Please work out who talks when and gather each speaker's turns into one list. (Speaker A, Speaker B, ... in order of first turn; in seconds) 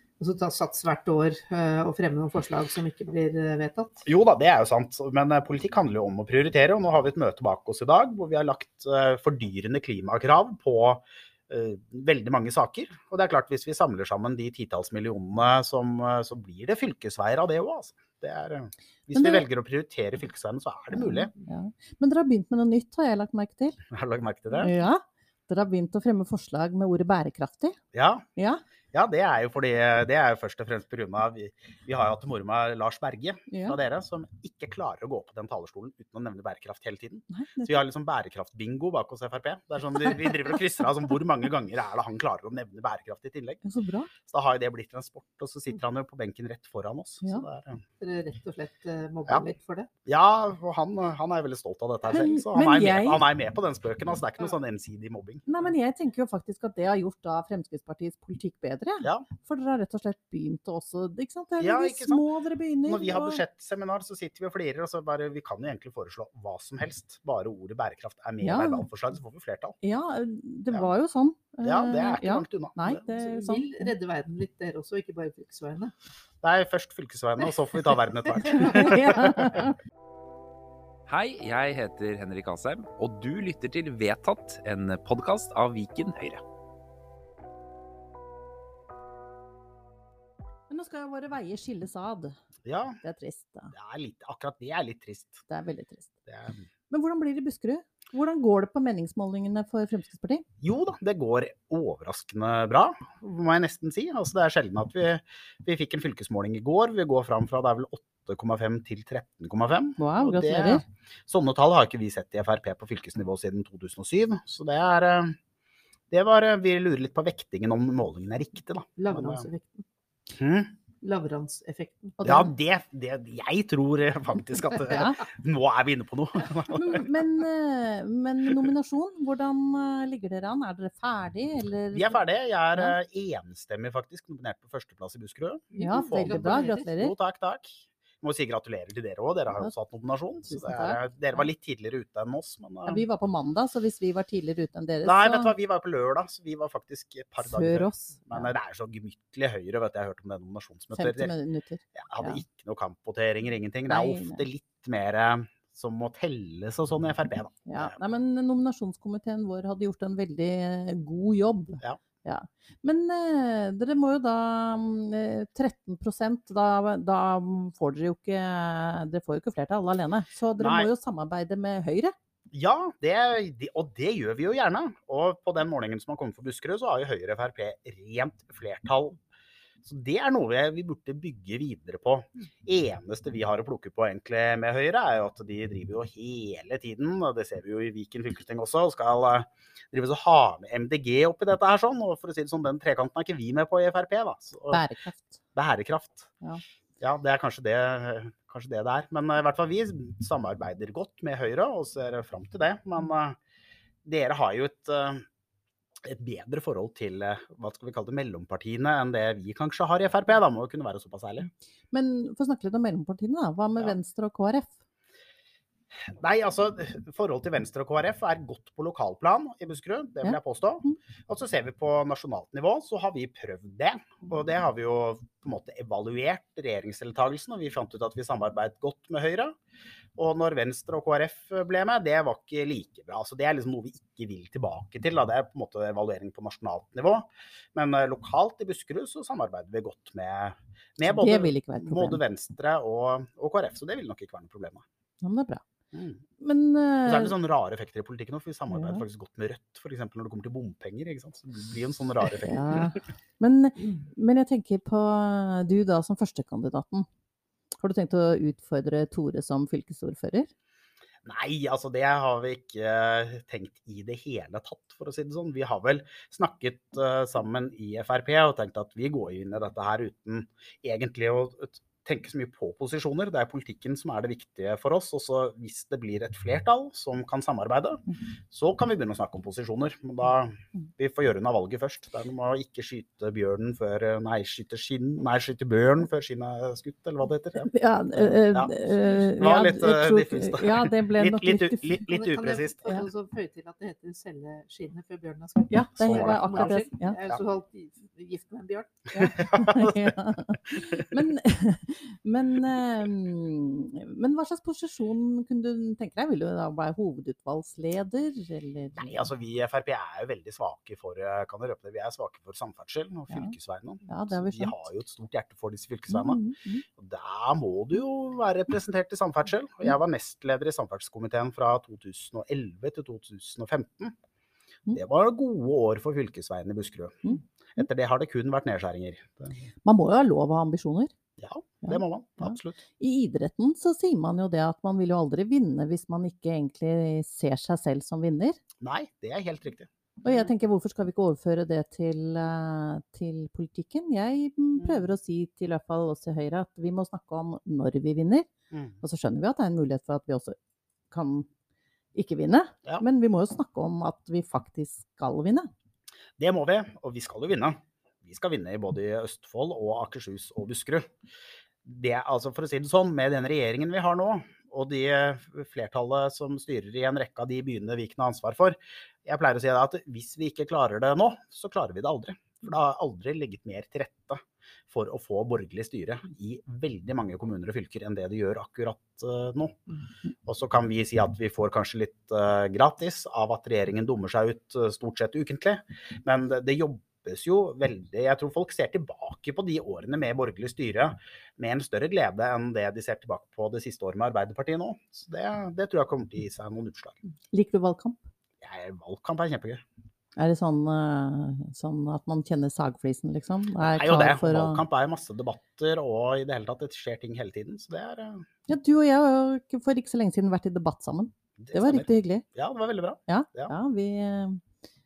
Speaker A: 0.2-4.1, 48.0-49.9, 73.1-75.9, 119.0-119.8, 121.0-122.2, 135.7-136.9, 292.1-299.1
Speaker B: 4.1-21.3, 23.9-24.7, 27.9-28.3, 28.9-43.6, 44.2-47.8, 50.1-55.5, 61.6-62.2, 62.9-69.8, 71.6-73.0, 76.4-79.6, 92.7-93.0, 93.7-95.4, 96.3-96.6, 100.6-115.4, 116.1-119.5, 120.3-120.7, 122.2-127.1, 131.9-143.0, 145.0-151.3, 151.9-157.9, 170.6-170.9, 172.5-179.2, 179.8-194.8, 195.6-196.3, 197.0-203.4, 204.1-205.2, 206.0-211.5, 216.1-229.6, 230.2-244.8, 245.9-246.2, 247.1-253.0, 261.2-288.7, 289.4-292.8, 296.0-296.8, 299.2-300.1, 309.0-316.4, 317.0-324.1, 324.9-329.6, 331.4-332.8, 338.8-339.9, 344.8-345.1, 348.7-349.0, 356.4-361.1, 361.8-379.8, 380.5-397.2, 398.6-399.8, 403.8-408.5, 411.6-413.7
Speaker C: 19.1-19.4, 20.9-23.8, 24.6-27.8, 28.4-28.6, 33.5-33.8, 37.3-37.8, 43.6-44.1, 52.1-53.2, 55.5-63.4, 68.4-68.9, 69.8-73.9, 78.5-79.8, 90.7-92.3, 93.0-93.7, 95.5-96.1, 96.9-100.4, 110.0-110.8, 122.2-122.5, 124.9-125.2, 126.7-132.2, 135.8-137.1, 140.4-141.5, 142.9-145.5, 147.4-148.5, 150.9-152.4, 153.9-154.4, 157.7-172.1, 194.7-195.4, 211.9-214.8, 220.2-220.9, 241.1-242.2, 245.2-245.6, 246.4-247.3, 248.7-249.0, 252.5-257.1, 257.8-260.5, 287.7-292.0, 295.7-297.2, 299.1-309.3, 313.3-313.6, 314.1-314.9, 316.1-316.9, 329.9-331.1, 331.9-338.6, 340.2-348.5, 349.0-350.6, 351.1-351.5, 352.1-355.7, 397.5-398.2, 400.4-404.8, 408.7-412.4, 413.3-414.6
Speaker D: 81.1-86.4